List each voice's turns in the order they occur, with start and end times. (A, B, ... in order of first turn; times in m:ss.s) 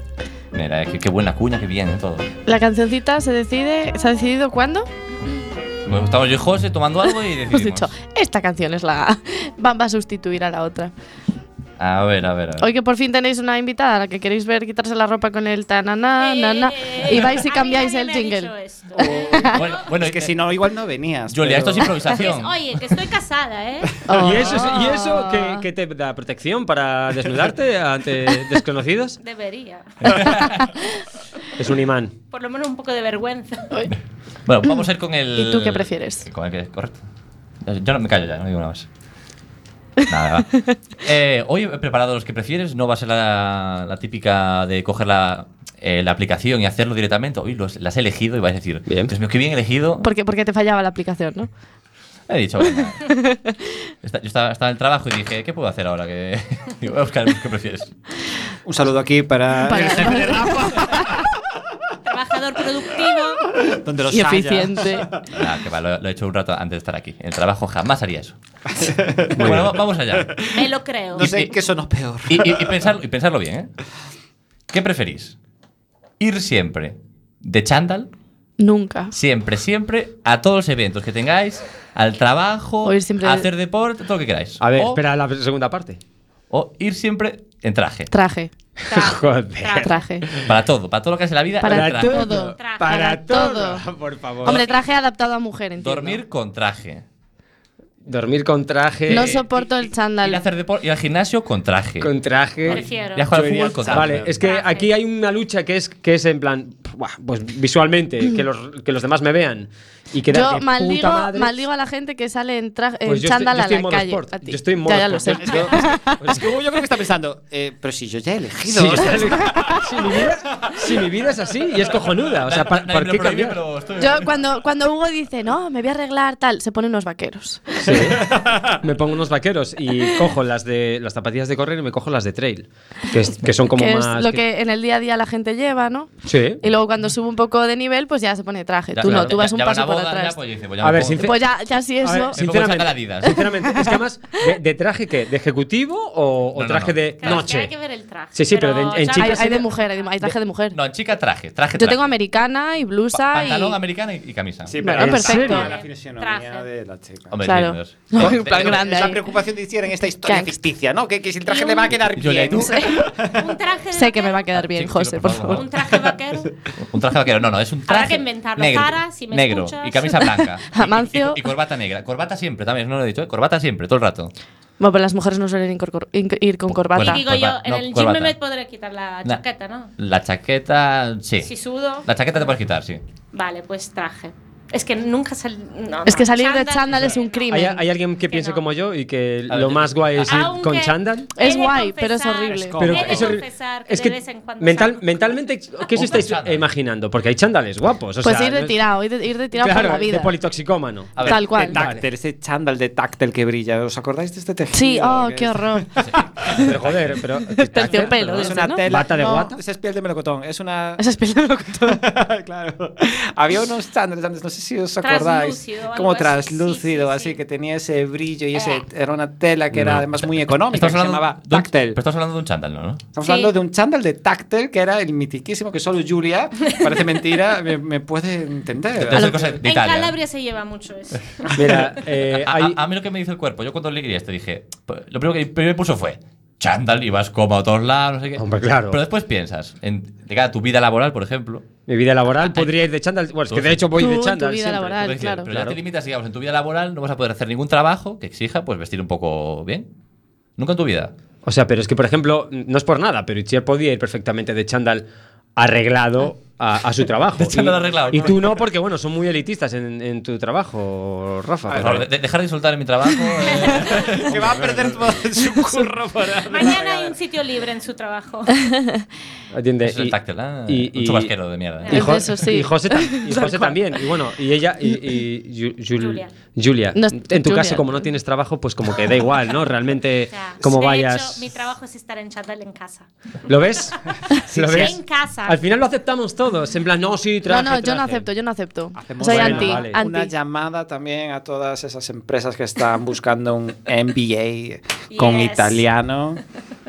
0:00.5-0:02.3 A
0:02.5-0:04.9 B
0:05.9-0:07.9 A
0:07.5-0:10.9 B
0:11.8-0:12.7 A
0:12.6-0:18.5 B
0:16.2-0:19.6 C
0:19.0-0:22.2 D
0:19.5-0:20.4 A
0:21.3-0:22.6 A
0:22.1-0:24.0 C
0:24.1-0:25.6 B
0:24.2-0:29.2 E
0:29.2-0:30.3 C
0:30.1-0:30.6 A
0:31.6-0:32.1 E
0:32.3-0:33.7 C
0:34.5-0:37.0 A
0:35.4-0:36.3 B
0:37.6-0:38.9 A
0:40.1-0:50.1 A
0:48.9-0:49.1 E
0:50.0-0:51.5 B
0:52.3-0:53.1 A
0:52.8-0:53.5 B
0:54.0-0:57.9 A
0:58.6-1:01.3 D
0:59.6-1:01.2 B
1:02.0-1:03.4 C
1:03.6-1:05.2 D
1:04.1-1:05.1 B
1:05.3-1:08.4 A
1:08.7-1:12.9 D
1:09.4-1:09.7 E
1:09.4-1:10.4 A
1:10.5-1:11.3 C
1:11.2-1:11.5 A
1:12.3-1:13.7 A
1:14.7-1:15.4 A
1:16.2-1:18.1 A
1:18.6-1:19.1 B
1:19.1-1:25.0 A
1:22.8-1:23.5 B
1:24.6-1:26.0 E
1:26.5-1:28.1 A
1:28.1-1:28.5 B
1:28.8-1:30.3 C
1:28.9-1:30.0 E
1:29.8-1:30.2 B
1:30.5-1:32.4 A
1:31.6-1:33.8 B
1:31.6-1:34.6 E
1:32.6-1:33.0 C
1:34.2-1:34.5 D
1:34.4-1:36.2 B
1:34.5-1:34.8 C
1:35.8-1:37.0 A
1:38.0-1:39.5 E
1:39.1-1:40.4 B
1:40.1-1:42.1 A
1:42.0-1:42.8 E
1:42.7-1:44.4 D
1:42.7-1:43.3 C
1:43.1-1:44.3 A
1:43.9-1:51.6 E
1:44.4-1:44.9 C
1:50.3-1:56.2 B
1:53.1-1:56.5 E
1:55.4-2:01.0 D
1:58.7-2:03.6 E
1:59.1-1:59.8 B
2:02.4-2:04.3 A
2:04.0-2:07.8 B
2:07.8-2:14.4 E
2:07.9-2:08.8 D
2:13.7-2:20.4 B
2:16.2-2:16.6 E
2:18.9-2:21.4 A
2:19.0-2:19.4 E
2:20.8-2:21.3 E
2:21.2-2:22.4 B
2:22.0-2:27.8 E
2:22.4-2:23.4 A
2:23.7-2:24.0 B
2:26.6-2:27.4 A
2:27.2-2:30.1 C
2:28.3-2:29.7 E
2:29.2-2:30.8 B
2:30.7-2:32.1 A
2:31.8-2:33.8 B
2:33.1-2:34.8 A
2:34.7-2:37.4 D
2:34.8-2:35.7 E
2:34.9-2:35.7 B
2:35.4-2:36.7 C
2:37.3-2:38.8 A
2:37.4-2:39.2 B
2:38.1-2:43.5 D
2:40.2-2:40.6 B
2:41.5-2:42.0 C
2:42.1-2:42.8 A
2:42.5-2:43.0 B
2:43.3-2:44.5 C
2:43.9-2:45.6 B
2:44.6-2:45.7 A
2:45.5-2:46.6 C
2:46.8-2:54.3 A
2:47.9-2:50.4 C
2:50.7-2:51.4 B
2:54.8-2:57.2 B
2:56.9-2:58.4 A
2:57.0-2:59.9 C
3:00.0-3:01.5 A
3:01.4-3:02.1 C
3:02.0-3:03.0 A
3:03.3-3:07.7 C
3:06.1-3:07.8 B
3:07.5-3:11.3 E
3:08.2-3:08.6 C
3:09.5-3:10.4 A
3:10.2-3:16.2 C
3:11.4-3:12.8 B
3:12.5-3:13.4 D
3:12.8-3:18.8 E
3:15.9-3:16.6 A
3:18.2-3:20.3 B
3:19.5-3:22.0 E
3:21.1-3:21.5 A
3:21.2-3:26.7 D
3:21.2-3:21.8 B
3:24.7-3:25.9 B
3:26.0-3:27.2 A
3:26.6-3:28.3 E
3:27.5-3:28.8 B
3:27.8-3:31.0 D
3:28.3-3:28.6 A
3:28.8-3:29.6 E
3:31.0-3:32.0 B
3:31.9-3:42.0 D
3:35.0-3:37.4 C
3:38.5-3:38.8 C
3:39.7-3:43.1 A
3:43.1-3:49.6 D
3:43.2-3:43.5 C
3:49.0-3:50.2 A
3:49.6-3:51.9 C
3:51.6-3:52.8 E
3:52.4-4:01.6 A
3:58.4-3:59.0 E
4:01.9-4:05.8 E
4:02.4-4:02.7 A
4:03.5-4:03.8 A
4:04.0-4:05.5 B
4:05.0-4:09.9 A
4:10.6-4:11.1 A
4:11.4-4:22.1 E
4:17.4-4:18.4 A
4:21.7-4:22.0 D
4:21.8-4:25.0 A
4:23.8-4:27.2 D
4:26.5-4:28.7 C
4:28.7-4:29.0 B
4:29.5-4:31.3 E
4:29.8-4:32.1 A
4:31.8-4:32.1 C
4:31.9-4:41.4 E
4:31.9-4:33.8 B
4:36.0-4:36.3 C
4:37.0-4:38.0 B
4:40.3-4:43.1 C
4:43.5-4:48.3 E
4:44.5-4:45.6 C
4:47.5-4:50.3 B
4:49.0-4:56.4 D
4:49.2-4:50.0 E
4:55.1-4:55.8 C